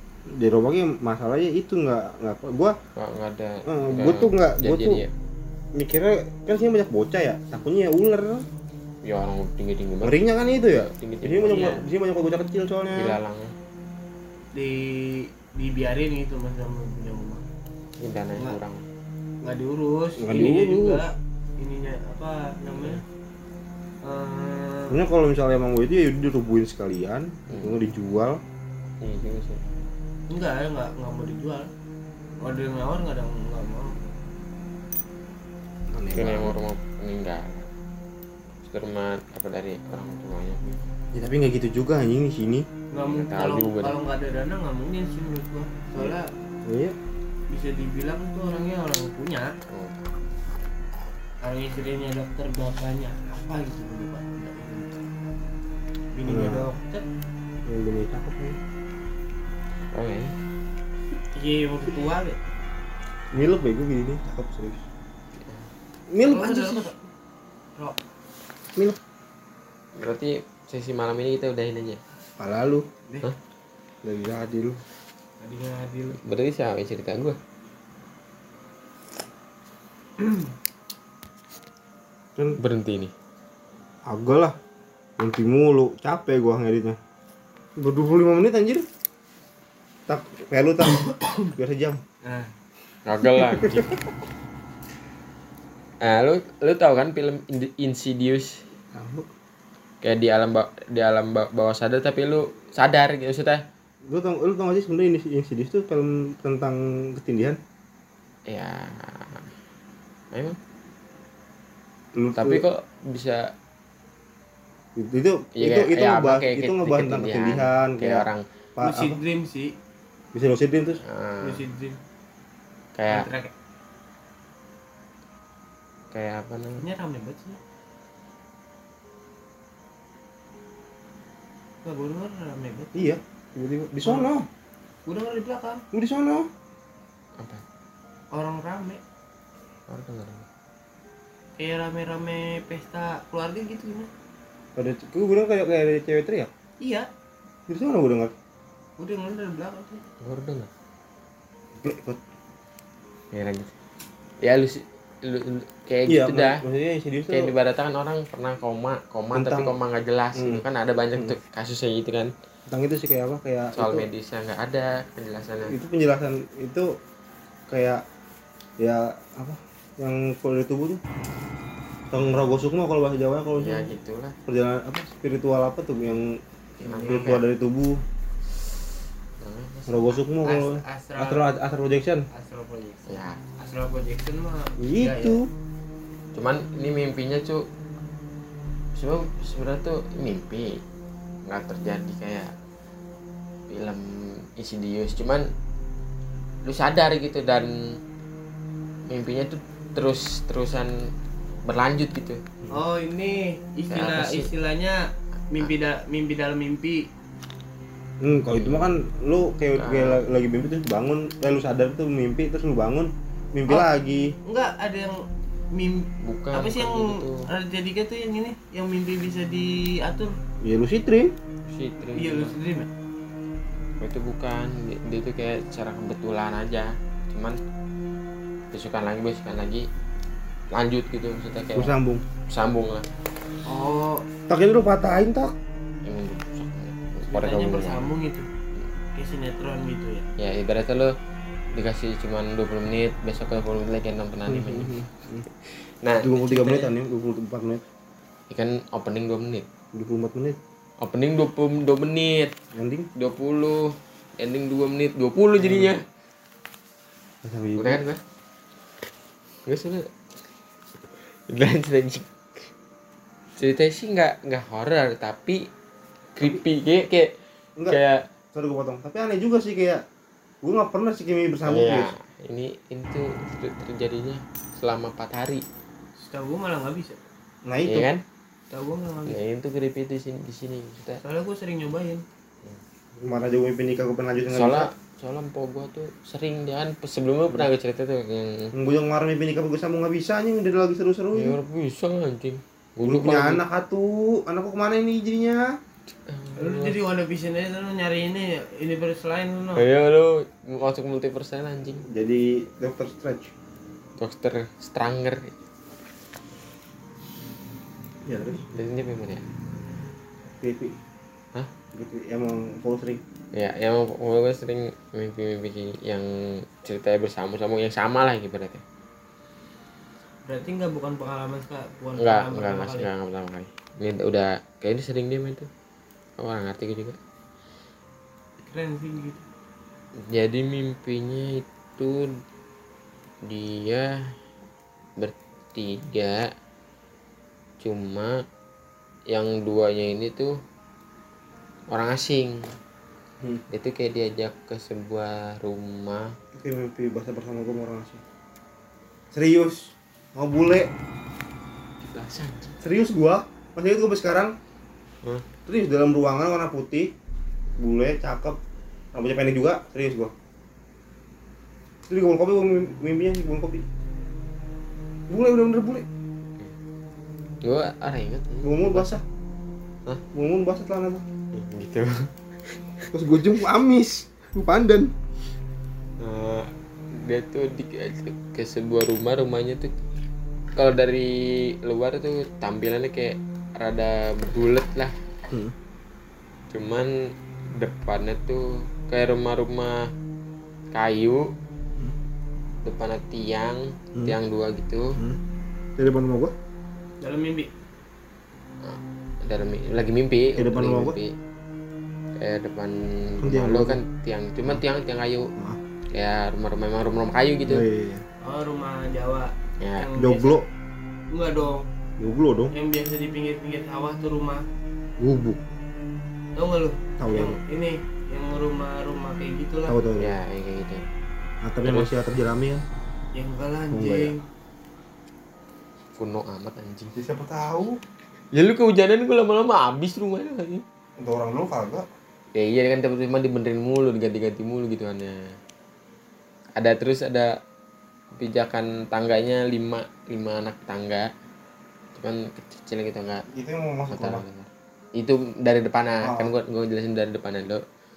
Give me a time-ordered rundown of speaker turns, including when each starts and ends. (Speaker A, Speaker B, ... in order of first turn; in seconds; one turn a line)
Speaker A: 0.3-2.8
Speaker B: 3.0-5.1
Speaker A: 3.6-5.0
Speaker A: 5.8-8.5
Speaker B: 9.0-10.2
Speaker A: 10.0-13.2
Speaker B: 10.7-11.8
Speaker C: 11.5-11.8
Speaker B: 12.9-13.5
Speaker C: 14.5-17.5
Speaker B: 18.0-18.9
Speaker C: 19.4-23.0
Speaker A: 20.2-21.0
Speaker C: 24.0-25.0
Speaker A: 24.9-28.4
Speaker B: 27.5-27.8
Speaker B: 29.0-29.8
Speaker C: 30.3-31.7
Speaker C: 32.4-34.1
Speaker A: 35.9-36.6
Speaker B: 36.1-37.7
Speaker B: 38.6-40.8
Speaker A: 41.1-42.7
Speaker C: 42.9-46.3
Speaker B: 43.1-44.0
Speaker A: 46.6-47.0
Speaker C: 47.5-49.5
Speaker B: 49.7-50.0
Speaker C: 51.4-55.0
Speaker C: 56.1-57.1
Speaker A: 56.3-56.7
Speaker A: 57.7-58.6
Speaker B: 59.9-60.4
Speaker C: 61.3-62.4
Speaker A: 63.3-64.8
Speaker B: 65.4-65.7
Speaker A: 66.1-66.9
Speaker C: 66.2-67.0
Speaker B: 70.0-72.0
Speaker A: 72.4-72.9
Speaker A: 74.0-74.8
Speaker C: 75.4-76.2
Speaker B: 76.2-77.4
Speaker C: 80.2-80.5
Speaker B: 82.5-83.1
Speaker A: 84.1-84.6
Speaker A: 85.2-87.0
Speaker A: 87.8-88.9
Speaker A: 90.1-92.0
Speaker C: 90.9-91.5
Speaker C: 92.2-92.5
Speaker B: 93.1-94.0
Speaker A: 93.4-93.9
Speaker B: 96.0-98.7
Speaker A: 98.9-99.3
Speaker B: 100.0-103.6
Speaker A: 104.1-107.6
Speaker B: 108.5-109.5
Speaker B: 110.3-110.6
Speaker A: 112.2-112.6
Speaker B: 112.4-113.5
Speaker A: 115.0-119.2
Speaker B: 115.6-118.5
Speaker C: 118.8-119.8
Speaker A: 120.3-121.0
Speaker B: 121.0-121.6
Speaker C: 121.4-122.0
Speaker B: 123.0-123.3
Speaker C: 123.1-123.5
Speaker B: 126.1-126.8
Speaker C: 126.8-127.6
Speaker C: 131.8-133.0
Speaker A: 132.9-134.5
Speaker C: 135.1-135.8
Speaker A: 135.9-136.5
Speaker B: 137.4-137.6
Speaker C: 138.3-139.0
Speaker B: 139.9-140.5
Speaker C: 141.6-144.1
Speaker A: 144.8-146.5
Speaker C: 146.8-147.1
Speaker A: 147.7-148.3
Speaker C: 149.0-150.0
Speaker B: 150.2-150.7
Speaker A: 151.8-152.2
Speaker B: 153.3-153.7
Speaker B: 154.4-156.6
Speaker A: 156.1-157.5
Speaker B: 157.3-162.3
Speaker A: 159.3-159.8
Speaker A: 160.3-161.4
Speaker A: 162.7-164.1
Speaker B: 163.8-165.8
Speaker A: 165.7-166.9
Speaker A: 167.7-168.0
Speaker A: 168.8-171.0
Speaker A: 172.1-173.9
Speaker B: 173.6-174.4
Speaker A: 174.5-176.4
Speaker B: 176.8-177.4
Speaker C: 176.8-177.4
Speaker A: 177.0-178.0
Speaker B: 179.4-180.2
Speaker A: 179.9-182.3
Speaker C: 180.4-181.5
Speaker C: 182.3-185.4
Speaker B: 183.1-183.4
Speaker A: 184.8-185.5
Speaker B: 186.3-187.7
Speaker B: 188.9-190.8
Speaker B: 191.5-192.5
Speaker B: 193.7-195.5
Speaker B: 196.7-198.0
Speaker B: 199.1-201.1
Speaker B: 201.7-202.4
Speaker C: 202.7-207.1
Speaker B: 203.9-204.5
Speaker A: 208.2-214.3
Speaker B: 208.5-208.9
Speaker B: 209.8-210.2
Speaker C: 214.4-220.3
Speaker B: 216.2-217.5
Speaker A: 220.6-221.3
Speaker B: 221.7-222.6
Speaker C: 222.0-222.9
Speaker B: 224.0-227.6
Speaker B: 228.7-229.9
Speaker B: 230.7-231.9
Speaker A: 231.8-232.2
Speaker B: 232.5-233.1
Speaker C: 233.7-234.3
Speaker A: 234.5-235.6
Speaker B: 236.1-238.2
Speaker C: 237.3-238.5
Speaker C: 239.2-240.3
Speaker B: 240.4-241.2
Speaker B: 241.7-244.9
Speaker A: 244.5-245.5
Speaker B: 245.7-246.5
Speaker A: 246.2-247.8
Speaker C: 246.4-246.9
Speaker B: 248.5-249.7
Speaker A: 249.9-250.6
Speaker B: 251.0-252.5
Speaker A: 252.7-253.1
Speaker B: 253.2-256.1
Speaker A: 255.6-255.9
Speaker A: 257.4-258.0
Speaker B: 257.8-258.2
Speaker B: 259.6-260.1
Speaker B: 261.1-262.7
Speaker B: 263.6-265.7
Speaker B: 266.4-268.2
Speaker A: 268.5-270.0
Speaker A: 270.6-272.1
Speaker B: 271.7-275.7
Speaker C: 276.2-277.2
Speaker A: 277.6-278.1
Speaker B: 277.9-278.2
Speaker C: 278.7-279.4
Speaker B: 279.3-281.2
Speaker C: 281.2-282.2
Speaker A: 283.1-284.9
Speaker B: 284.5-288.7
Speaker A: 288.7-291.6
Speaker B: 291.4-293.6
Speaker A: 293.1-295.8
Speaker B: 296.2-297.0
Speaker C: 296.6-299.9
Speaker B: 299.8-302.1
Speaker A: 302.1-303.5
Speaker B: 304.2-305.6
Speaker A: 308.2-308.6
Speaker B: 308.7-309.4
Speaker A: 310.5-310.9
Speaker A: 311.9-313.2
Speaker B: 313.5-318.8
Speaker C: 320.4-323.1
Speaker B: 322.2-325.7
Speaker B: 326.4-327.2
Speaker C: 328.6-329.4
Speaker B: 330.2-332.4
Speaker B: 333.4-334.4
Speaker B: 335.2-336.5
Speaker B: 337.8-338.4
Speaker B: 339.3-340.6
Speaker B: 341.9-342.7
Speaker B: 343.7-346.3
Speaker A: 346.5-348.2
Speaker A: 349.3-350.9
Speaker B: 352.0-352.8
Speaker A: 352.8-354.6
Speaker A: 355.7-357.1
Speaker A: 357.8-358.6
Speaker A: 359.1-360.3
Speaker A: 362.1-363.9
Speaker A: 365.3-366.1
Speaker B: 367.6-369.1
Speaker A: 368.6-369.2
Speaker A: 370.3-371.3
Speaker B: 371.5-373.1
Speaker A: 373.1-375.1
Speaker B: 376.2-379.9
Speaker B: 380.8-385.1
Speaker A: 385.5-385.8
Speaker B: 386.7-387.1
Speaker B: 387.7-390.1
Speaker B: 390.9-391.5
Speaker B: 392.8-395.2
Speaker A: 396.0-396.5
Speaker C: 397.2-397.7
Speaker B: 398.8-401.3
Speaker A: 400.6-401.2
Speaker B: 402.4-405.5
Speaker A: 403.4-404.0
Speaker B: 406.1-407.9
Speaker A: 407.7-408.2
Speaker C: 408.4-410.6
Speaker B: 409.8-410.1
Speaker A: 410.1-410.6
Speaker C: 411.3-411.9
Speaker A: 412.2-412.7
Speaker C: 412.7-414.7
Speaker A: 415.2-415.7
Speaker C: 416.6-420.0
Speaker A: 417.2-417.6
Speaker A: 419.9-420.4
Speaker B: 420.2-421.1
Speaker A: 421.6-422.9
Speaker B: 421.9-422.2
Speaker C: 423.3-424.5
Speaker A: 423.9-424.3
Speaker B: 426.2-427.2
Speaker A: 427.1-428.0
Speaker B: 428.5-430.8
Speaker A: 431.2-432.1
Speaker B: 432.5-435.5
Speaker B: 436.8-437.5
Speaker B: 438.3-441.3
Speaker B: 442.1-443.4
Speaker A: 443.5-444.4
Speaker B: 444.1-447.8
Speaker A: 446.2-446.5